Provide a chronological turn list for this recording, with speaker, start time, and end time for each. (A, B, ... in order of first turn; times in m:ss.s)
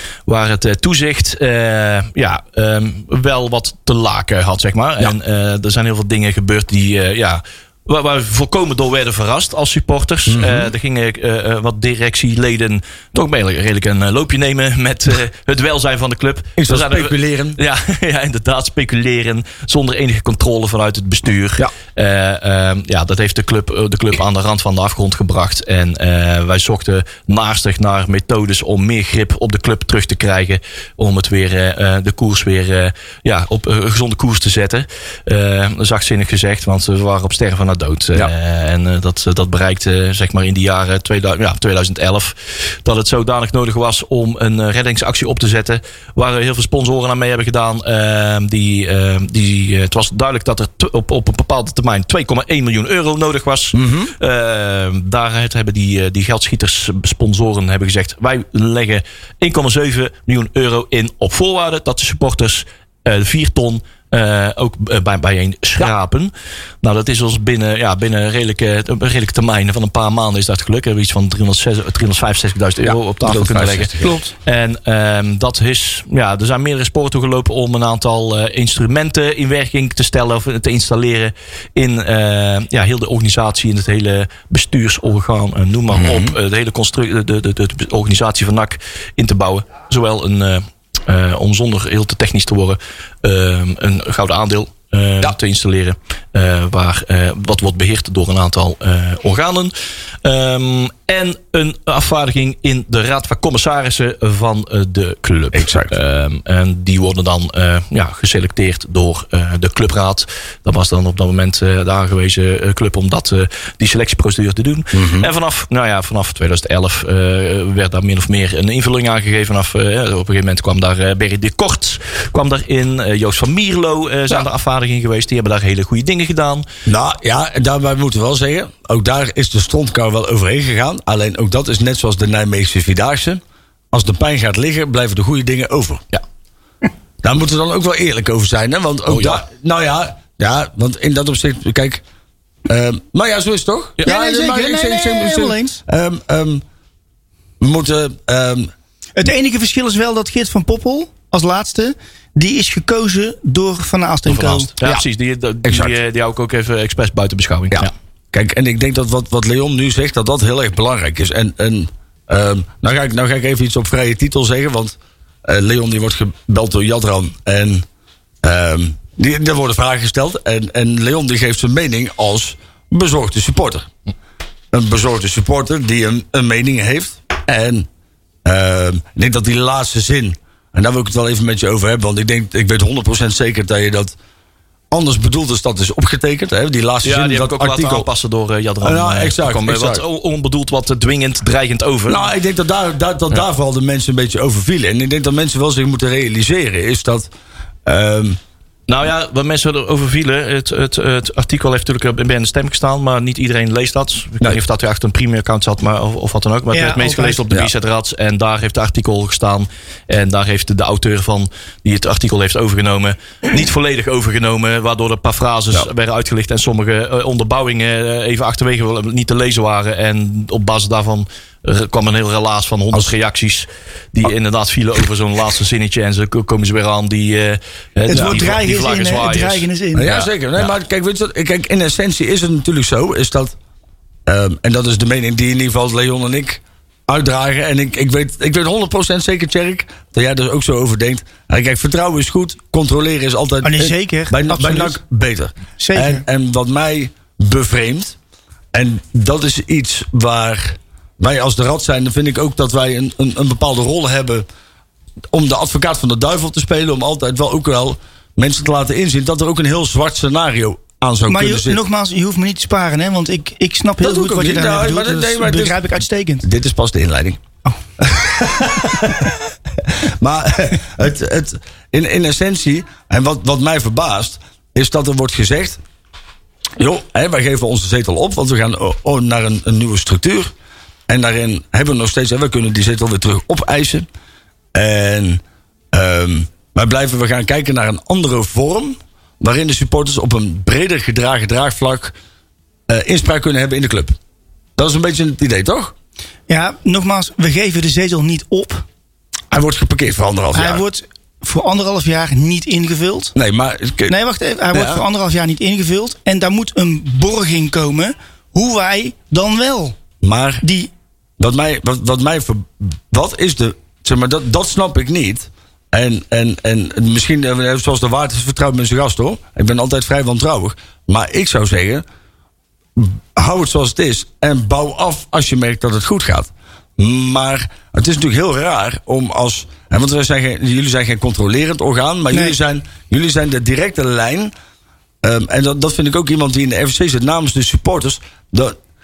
0:00.3-1:13.9 A
0:10.3-0:10.7 B
0:16.6-0:17.6 B
0:53.7-0:54.1 B
1:12.8-1:14.3 B
1:14.4-1:39.7 A
1:25.9-1:26.4 B
1:40.2-2:06.7 A
1:45.5-1:46.0 B
1:54.9-1:55.3 B
2:06.9-2:16.0 B
2:17.2-2:22.0 B
2:19.1-2:19.4 A
2:22.7-2:26.6 B
2:24.1-2:25.8 C
2:27.6-2:28.7 B
2:29.2-2:34.7 C
2:34.3-2:37.9 A
2:35.6-2:35.9 B
2:37.7-2:47.8 B
2:48.4-2:53.9 B
2:54.7-2:57.9 B
2:58.4-3:04.2 B
3:04.9-3:08.1 B
3:07.0-3:12.3 A
3:08.8-3:10.0 B
3:12.1-3:17.3 B
3:17.9-3:18.4 B
3:18.9-3:50.7 A
3:26.7-3:27.4 C
3:48.1-3:50.2 C
3:48.1-3:48.4 B
3:50.0-3:53.6 B
3:54.3-4:08.2 B
4:03.6-4:05.0 C
4:05.8-4:06.2 C
4:08.7-4:14.4 B
4:15.3-4:21.8 B
4:21.3-4:26.5 C
4:24.0-4:25.9 B
4:26.4-4:27.4 B
4:28.0-4:29.4 B
4:30.0-4:35.8 B
4:36.8-4:40.5 B
4:41.1-4:44.1 B
4:44.7-4:52.1 B
4:52.9-4:54.2 B
4:54.8-4:55.9 B
4:56.5-4:58.8 C
4:59.5-5:00.8 B
5:00.5-5:03.3 C
5:03.4-5:04.2 B
5:04.1-5:10.0 C
5:04.7-5:05.0 B
5:10.2-5:10.6 B
5:10.6-5:10.9 C
5:11.4-5:22.0 B
5:23.0-5:34.5 B
5:35.2-5:38.8 B